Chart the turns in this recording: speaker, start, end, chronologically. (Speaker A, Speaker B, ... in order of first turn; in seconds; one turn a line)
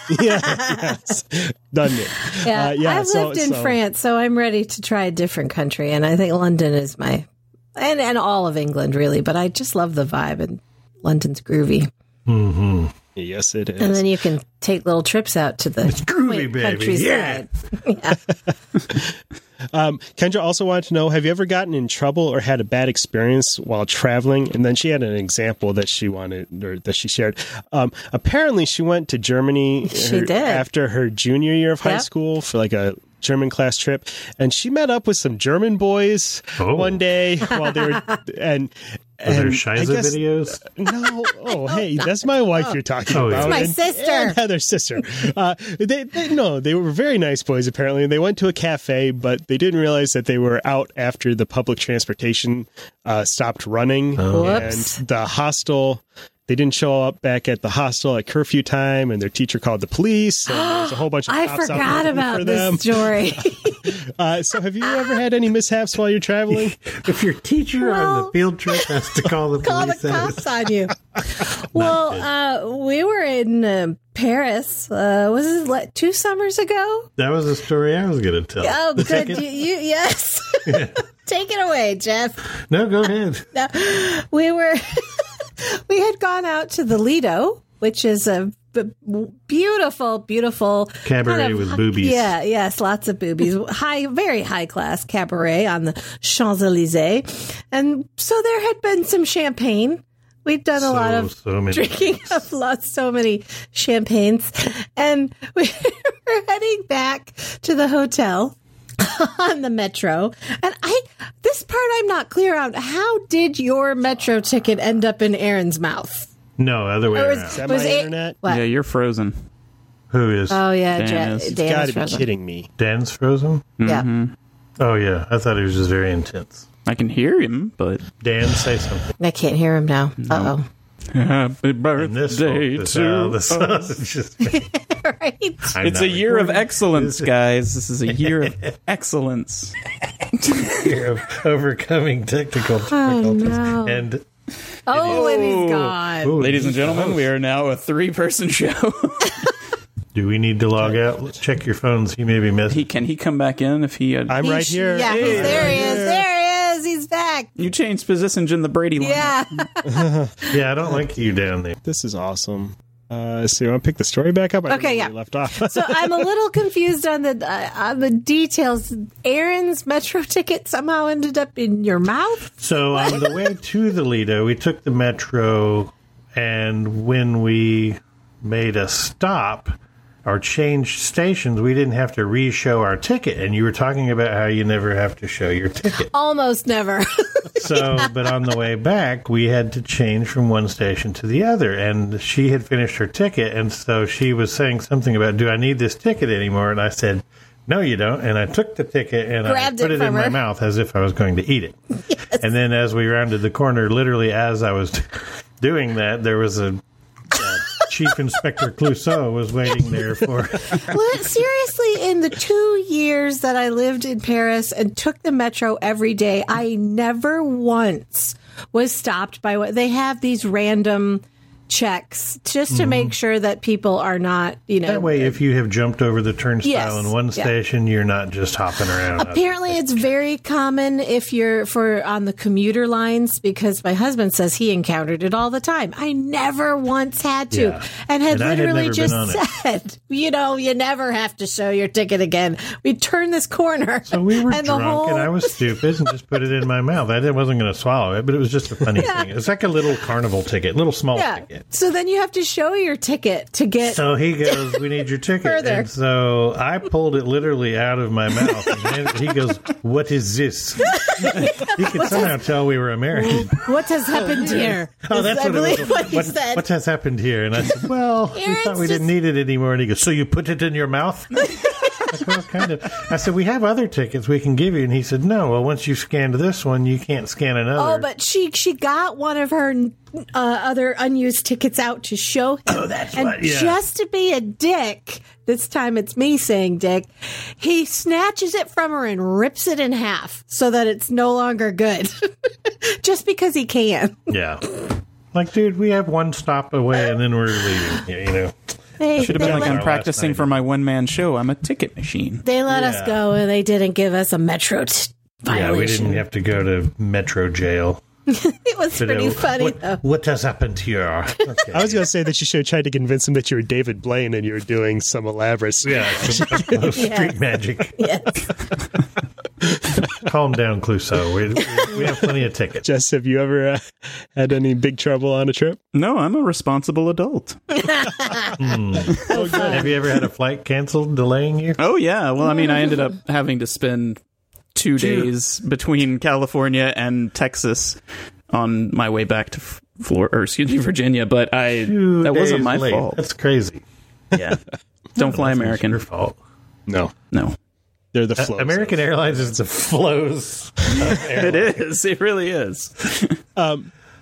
Speaker A: 0.1-3.8
Speaker B: 0.4-0.9
Speaker B: 2.3-11.9
Speaker C: 12.3-12.9
Speaker A: 13.2-14.1
Speaker B: 13.8-18.2
Speaker C: 15.8-17.5
Speaker A: 19.7-63.4
Speaker B: 29.9-30.6
Speaker C: 36.6-37.0
Speaker C: 39.3-40.6
Speaker B: 41.5-42.8
Speaker C: 43.1-43.7
Speaker B: 43.4-44.4
Speaker C: 54.2-54.8
Speaker B: 54.3-55.0
Speaker B: 60.5-63.9
Speaker A: 63.9-66.8
Speaker C: 66.5-70.5
Speaker B: 67.8-68.9
Speaker B: 69.6-77.1
Speaker C: 71.7-72.3
Speaker C: 77.2-79.4
Speaker B: 78.6-82.4
Speaker C: 80.7-80.9
Speaker C: 82.7-83.5
Speaker B: 83.5-116.3
Speaker C: 91.0-92.3
Speaker C: 100.8-102.5
Speaker C: 116.6-117.6
Speaker B: 117.1-118.6
Speaker A: 117.5-118.4
Speaker D: 118.5-119.3
Speaker C: 120.1-120.7
Speaker B: 120.5-122.3
Speaker D: 121.0-121.5
Speaker A: 121.5-122.7
Speaker C: 122.8-123.8
Speaker D: 123.8-124.3
Speaker C: 124.8-126.7
Speaker D: 126.9-128.1
Speaker C: 128.2-129.1
Speaker B: 129.2-130.7
Speaker D: 130.2-130.5
Speaker D: 131.1-133.9
Speaker C: 132.0-134.7
Speaker B: 134.5-135.8
Speaker C: 135.7-137.3
Speaker D: 135.8-139.8
Speaker C: 138.1-138.6
Speaker C: 140.6-144.2
Speaker B: 142.9-144.1
Speaker B: 144.9-146.3
Speaker C: 144.9-147.3
Speaker D: 145.1-149.5
Speaker C: 150.1-152.9
Speaker D: 152.7-155.9
Speaker A: 154.3-156.2
Speaker B: 154.4-157.5
Speaker D: 157.6-159.4
Speaker B: 159.0-160.0
Speaker A: 159.8-160.5
Speaker C: 160.5-161.8
Speaker A: 161.8-166.3
Speaker B: 164.7-173.3
Speaker C: 172.6-179.7
Speaker C: 180.2-186.1
Speaker B: 186.0-188.1
Speaker C: 187.6-201.8
Speaker B: 199.4-200.4
Speaker B: 202.1-202.4
Speaker C: 202.4-206.8
Speaker C: 207.3-210.8
Speaker B: 210.8-225.4
Speaker C: 222.7-223.1
Speaker C: 224.8-230.1
Speaker B: 226.6-227.5
Speaker B: 229.2-245.5
Speaker C: 237.5-239.4
Speaker C: 244.1-251.7
Speaker B: 249.0-249.3
Speaker B: 251.1-254.8
Speaker C: 253.8-278.1
Speaker B: 255.4-255.9
Speaker B: 260.9-262.4
Speaker B: 263.1-266.7
Speaker B: 268.4-269.1
Speaker B: 271.6-272.1
Speaker B: 277.8-292.1
Speaker C: 282.7-283.8
Speaker B: 292.7-294.2
Speaker C: 294.3-294.7
Speaker C: 295.3-298.6
Speaker B: 299.0-299.8
Speaker C: 299.1-300.5
Speaker D: 299.2-302.4
Speaker B: 302.4-306.2
Speaker C: 302.7-303.2
Speaker C: 305.5-308.0
Speaker B: 308.3-310.0
Speaker C: 309.0-312.1
Speaker A: 311.7-316.9
Speaker C: 315.8-318.2
Speaker B: 316.9-317.4
Speaker B: 318.0-318.4
Speaker C: 320.2-322.9
Speaker A: 322.8-323.8
Speaker A: 324.3-325.8
Speaker D: 325.9-327.8
Speaker B: 327.9-328.4
Speaker C: 328.6-331.8
Speaker A: 329.2-329.9
Speaker B: 329.3-329.6
Speaker D: 331.8-334.2
Speaker D: 334.8-338.0
Speaker C: 334.9-335.3
Speaker D: 338.5-343.2
Speaker C: 341.8-343.8
Speaker D: 344.3-344.6
Speaker D: 345.2-346.0
Speaker C: 345.2-346.4
Speaker A: 346.9-347.1
Speaker A: 348.1-349.5
Speaker C: 348.4-351.8
Speaker D: 351.1-353.4
Speaker A: 353.6-353.9